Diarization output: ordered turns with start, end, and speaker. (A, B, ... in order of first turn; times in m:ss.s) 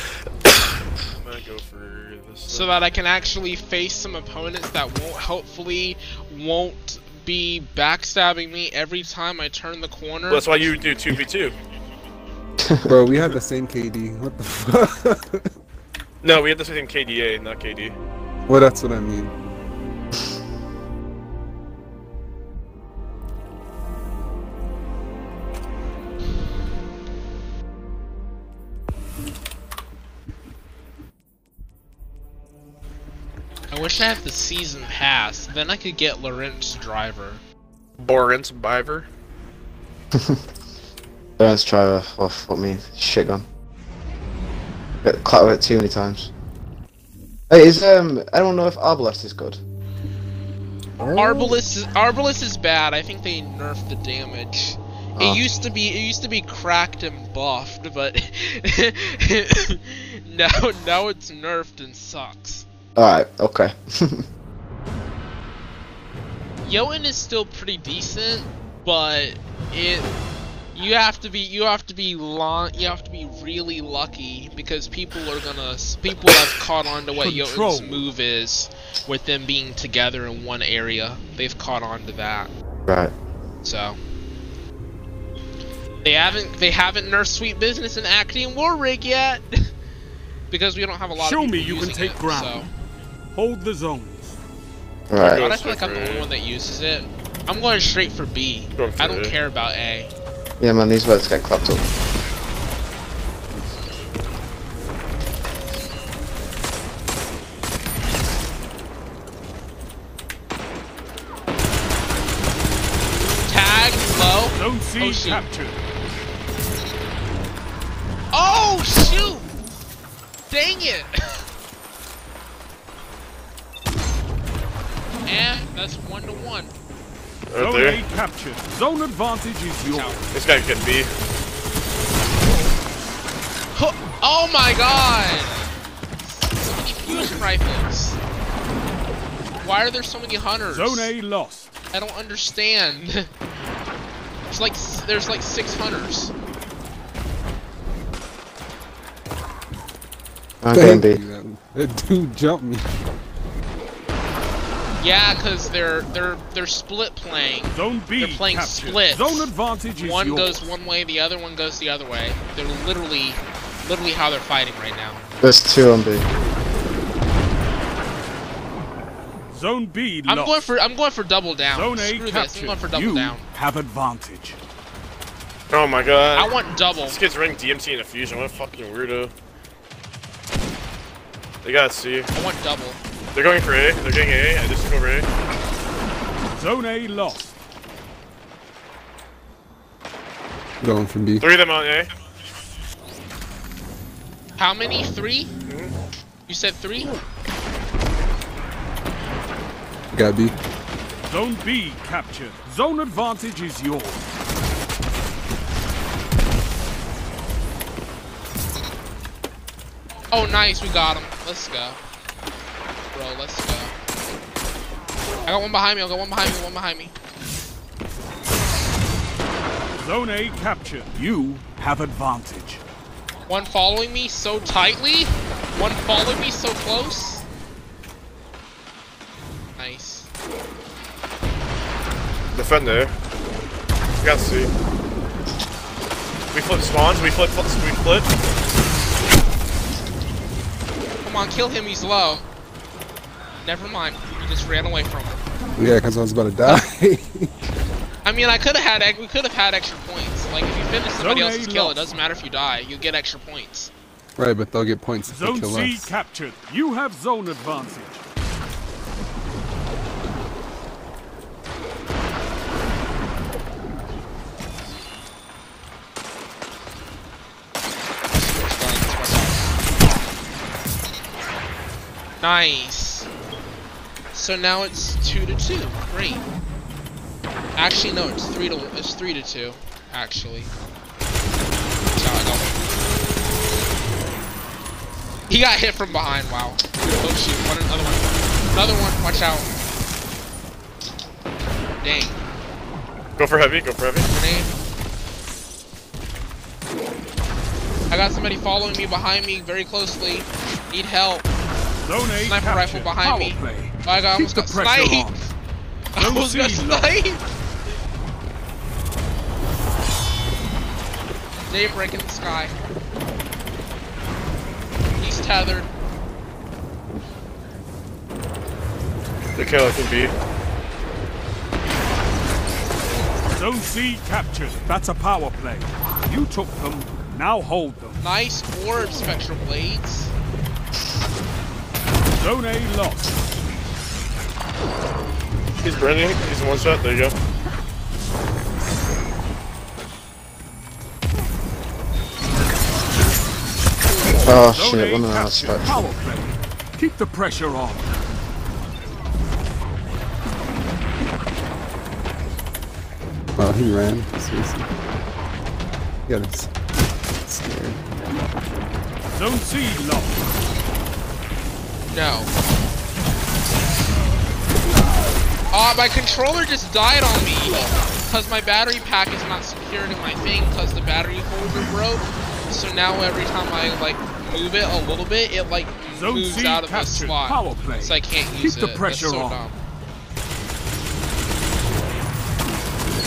0:01.1-0:02.8 A
0:02.5-0:10.6 B
0:10.3-0:11.5 A
0:12.6-0:13.3 C
0:12.8-0:15.5 D
0:16.2-0:18.0 A
0:18.5-0:19.3 D
0:33.7-0:37.4 B
0:38.0-0:39.1 A
0:40.1-0:40.4 C
0:41.4-0:43.5 C
0:45.0-0:46.3 C
0:47.5-0:49.6 C
0:51.0-0:51.6 D
0:51.2-1:02.7 B
0:55.2-0:55.4 C
1:03.0-1:04.2 C
1:06.6-1:10.1 B
1:10.8-1:22.5 B
1:17.2-1:18.1 E
1:22.9-1:23.1 C
1:23.6-1:24.0 B
1:26.0-1:29.7 B
1:30.5-1:32.7 B
1:31.2-1:32.7 E
1:33.3-1:34.4 E
1:35.1-1:35.4 C
1:35.2-1:36.3 A
1:35.3-1:40.1 B
1:38.8-1:39.4 A
1:40.6-1:41.9 C
1:53.5-1:55.4 B
1:54.5-1:55.8 E
1:58.3-1:59.5 B
2:00.5-2:01.4 B
2:05.2-2:06.7 B
2:07.5-2:08.0 A
2:07.6-2:10.2 E
2:09.9-2:10.2 B
2:10.3-2:11.1 A
2:13.8-2:15.7 B
2:16.2-2:18.2 B
2:19.6-2:21.1 B
2:20.7-2:21.7 E
2:21.9-2:23.3 B
2:24.5-2:26.3 B
2:30.6-2:31.2 C
2:30.7-2:32.8 D
2:35.0-2:45.2 B
2:37.7-2:40.6 E
2:45.4-2:46.3 C
2:49.5-2:50.7 E
2:50.3-2:53.4 B
2:51.7-2:54.6 E
2:55.7-2:56.5 A
2:56.4-2:57.2 B
2:57.1-2:59.3 A
3:01.6-3:02.3 A
3:02.3-3:03.0 B
3:03.3-3:05.3 A
3:06.5-3:07.6 E
3:10.8-3:11.5 D
3:11.4-3:12.1 A
3:14.6-3:15.5 B
3:15.7-3:15.9 A
3:16.5-3:17.2 B
3:20.1-3:20.6 D
3:21.3-3:24.3 E
3:30.3-3:32.0 B
3:33.1-3:34.0 B
3:35.5-3:37.1 B
3:40.0-3:42.8 E
3:43.5-3:47.5 B
3:49.8-3:50.3 B
3:52.5-3:53.1 A
3:54.2-3:54.7 A
3:56.5-3:58.3 A
4:01.2-4:02.4 B
4:03.6-4:05.4 B
4:05.8-4:07.5 D
4:08.2-4:13.9 B
4:11.2-4:12.1 E
4:14.4-4:16.1 D
4:15.3-4:18.2 E
4:28.4-4:29.7 B
4:32.4-4:33.3 B
4:34.3-4:36.4 B
4:37.8-4:40.7 B
4:42.2-4:42.8 B
4:45.5-4:49.7 B
4:52.0-4:52.4 B
4:53.4-4:54.3 A
4:54.3-4:54.7 B
4:58.1-5:01.5 B
5:02.0-5:05.5 E
5:02.4-5:05.5 B
5:06.2-5:07.4 B
5:06.2-5:07.2 E
5:11.7-5:12.8 B
5:15.2-5:15.9 B
5:19.6-5:20.3 A
5:23.5-5:28.2 E
5:28.2-5:30.3 B
5:32.4-5:33.4 E
5:35.8-5:37.4 A
5:44.4-5:46.0 C
5:44.7-5:48.1 E
5:53.6-5:54.9 D
5:56.3-5:56.7 D
5:57.5-5:58.0 D
5:59.3-6:00.5 E
6:02.1-6:02.5 B
6:05.7-6:19.8 B
6:16.1-6:19.7 E